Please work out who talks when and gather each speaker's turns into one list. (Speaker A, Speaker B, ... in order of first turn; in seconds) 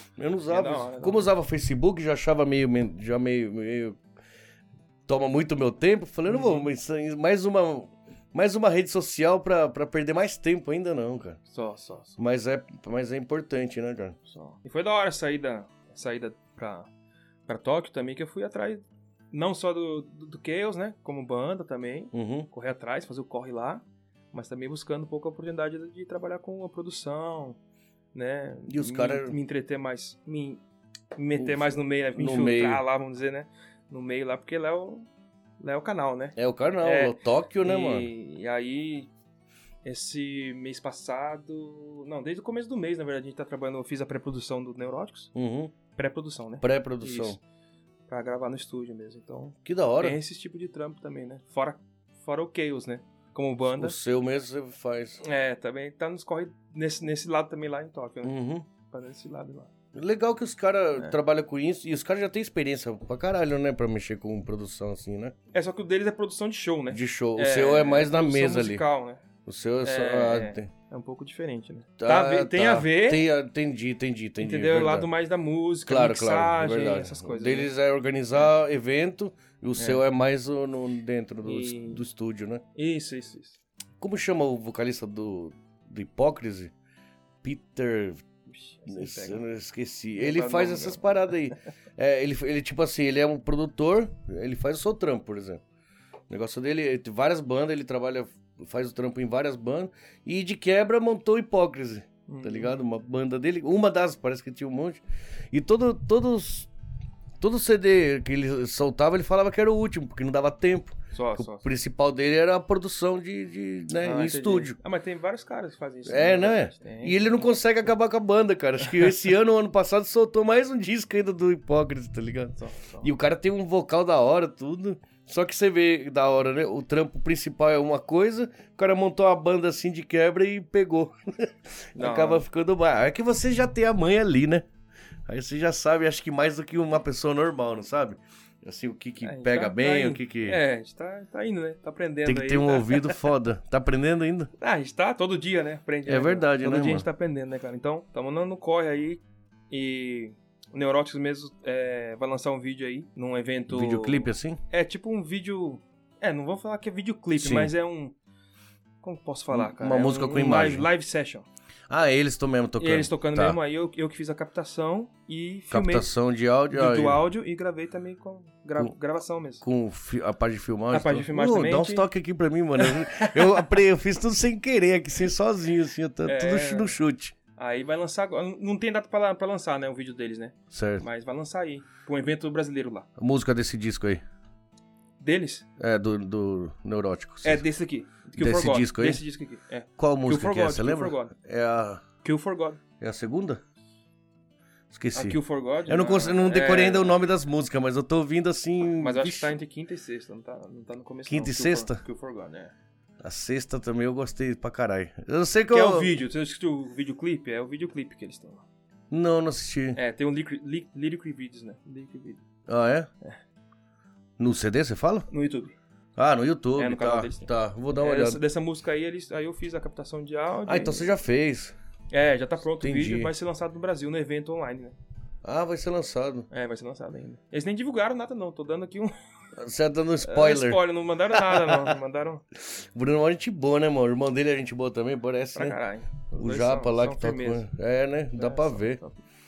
Speaker A: 0.2-4.0, 5.1-11.4, 12.2-14.2, 22.1-22.5, 28.7-29.4, 31.4-32.8, 36.4-38.1, 45.3-45.8, 46.6-47.4, 49.6-50.2, 53.7-55.2, 58.2-58.7, 59.9-65.3, 66.9-68.8, 69.5-70.7, 72.0-75.1, 75.9-82.6, 84.0-86.7, 87.4-88.2, 88.9-95.6, 96.3-106.7, 107.4-114.8, 116.1-134.7, 135.3-140.6, 142.2-144.5, 146.1-147.1, 153.7-154.6, 157.4-157.7, 159.5-160.9, 161.9-163.6, 165.7-167.2, 169.6-177.3, 180.7-181.1, 183.2-184.2, 185.8-187.6, 188.4-189.2, 190.0-192.1, 193.0-193.6, 194.9-199.5, 201.3-202.0, 203.2-206.1, 209.1-210.0, 212.7-213.1, 214.4-215.3, 216.2-218.4, 220.7-221.8, 222.8-223.3, 225.4-226.5, 229.6-230.8, 231.5-231.9, 232.6-235.8, 236.4-239.0
Speaker B: 0.5-1.3, 6.3-6.7, 11.5-12.2, 14.3-16.9, 17.5-27.6, 28.1-30.6, 31.1-35.1, 35.6-39.1, 39.8-45.3, 46.0-47.4, 48.1-54.0, 55.2-58.4, 58.9-59.7, 65.5-69.2, 69.8-73.3, 74.4-77.7, 79.8-80.0, 81.4-82.0, 82.8-83.6, 88.5-89.4, 90.2-91.3, 102.3-102.8, 111.1-111.7, 114.0-117.4, 118.9-119.1, 122.6-123.1, 132.0-132.4, 139.2-143.3, 144.6-158.2, 159.0-161.4, 162.8-166.1, 166.7-169.6, 170.9-172.1, 172.8-173.8, 176.2-177.0, 177.6-183.1, 185.2-185.7, 187.4-191.3, 192.2-192.8, 195.1-197.2, 199.0-202.7, 205.7-208.6, 210.0-212.4, 215.3-215.8, 216.8-221.1, 222.1-225.0, 226.5-229.1, 230.2-232.4, 235.6-237.7, 238.3-239.2